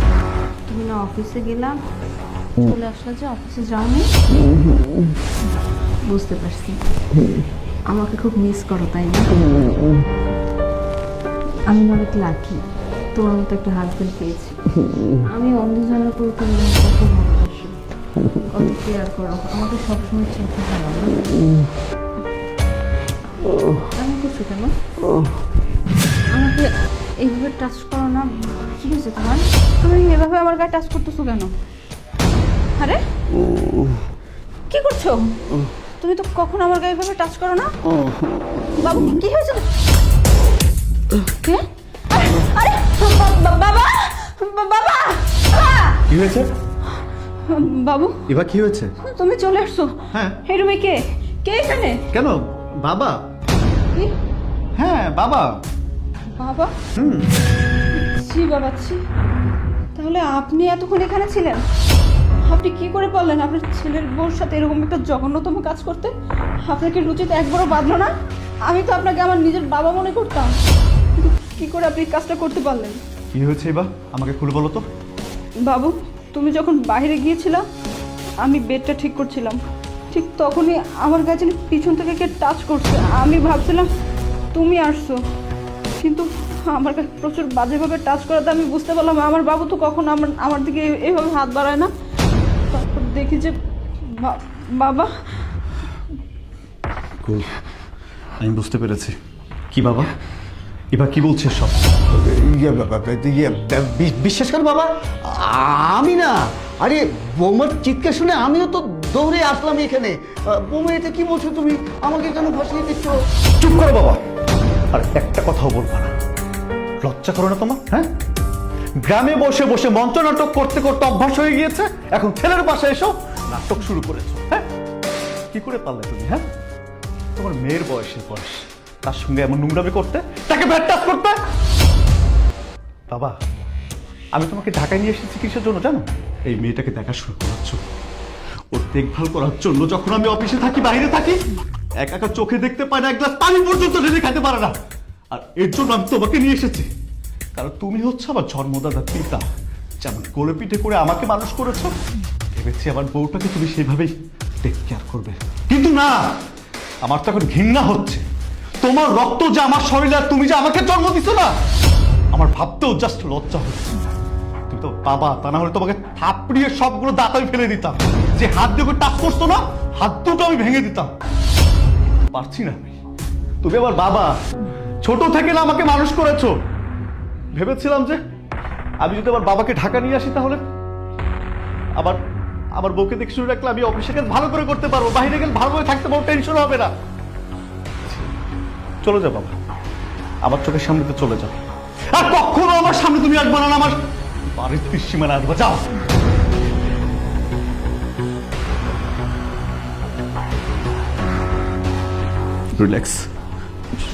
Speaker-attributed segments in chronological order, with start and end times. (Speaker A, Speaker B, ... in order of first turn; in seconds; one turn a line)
Speaker A: 0.7-1.8
Speaker A: 2.6-4.1
Speaker A: 6.1-6.8
Speaker A: 7.9-9.4
Speaker A: 11.7-12.6
Speaker A: 13.2-21.6
Speaker A: 23.8-24.7
Speaker B: 26.3-31.5
Speaker B: 34.7-35.3
Speaker B: 36.0-37.7
Speaker B: 38.8-39.7
Speaker B: 41.2-46.0
Speaker C: 46.1-46.5
Speaker B: 47.4-48.2
Speaker C: 48.3-48.9
Speaker B: 49.0-52.0
Speaker C: 50.1-50.4
Speaker C: 52.1-53.2
Speaker C: 54.8-55.5
Speaker B: 56.3-56.8
Speaker C: 57.0-57.3
Speaker B: 57.9-59.0
Speaker B: 60.0-61.6
Speaker B: 62.5-66.1
Speaker B: 66.6-68.1
Speaker B: 68.6-70.6
Speaker B: 71.2-73.0
Speaker C: 73.3-74.8
Speaker B: 75.6-77.7
Speaker B: 78.4-83.9
Speaker B: 84.5-85.2
Speaker B: 86.0-91.9
Speaker B: 92.7-95.2
Speaker C: 97.2-97.6
Speaker C: 98.4-99.2
Speaker C: 99.7-100.1
Speaker C: 100.9-101.9
Speaker D: 102.1-113.2
Speaker C: 113.6-114.2
Speaker C: 114.9-116.1
Speaker C: 117.0-118.1
Speaker C: 119.0-124.7
Speaker C: 125.5-126.4
Speaker C: 127.4-131.4
Speaker C: 133.1-133.4
Speaker C: 134.3-137.8
Speaker C: 138.7-141.4
Speaker C: 142.0-144.7
Speaker C: 145.3-146.9
Speaker C: 147.6-149.4
Speaker C: 150.0-151.9
Speaker C: 152.5-156.2
Speaker C: 157.0-158.2
Speaker C: 158.8-161.5
Speaker C: 162.3-164.0
Speaker C: 164.7-171.1
Speaker C: 172.0-173.0
Speaker C: 173.6-174.3
Speaker C: 175.0-176.6
Speaker C: 177.5-178.2
Speaker C: 179.0-180.6
Speaker C: 182.8-186.9
Speaker C: 188.1-188.3
Speaker C: 189.0-189.6
Speaker C: 190.4-195.9
Speaker C: 202.8-203.3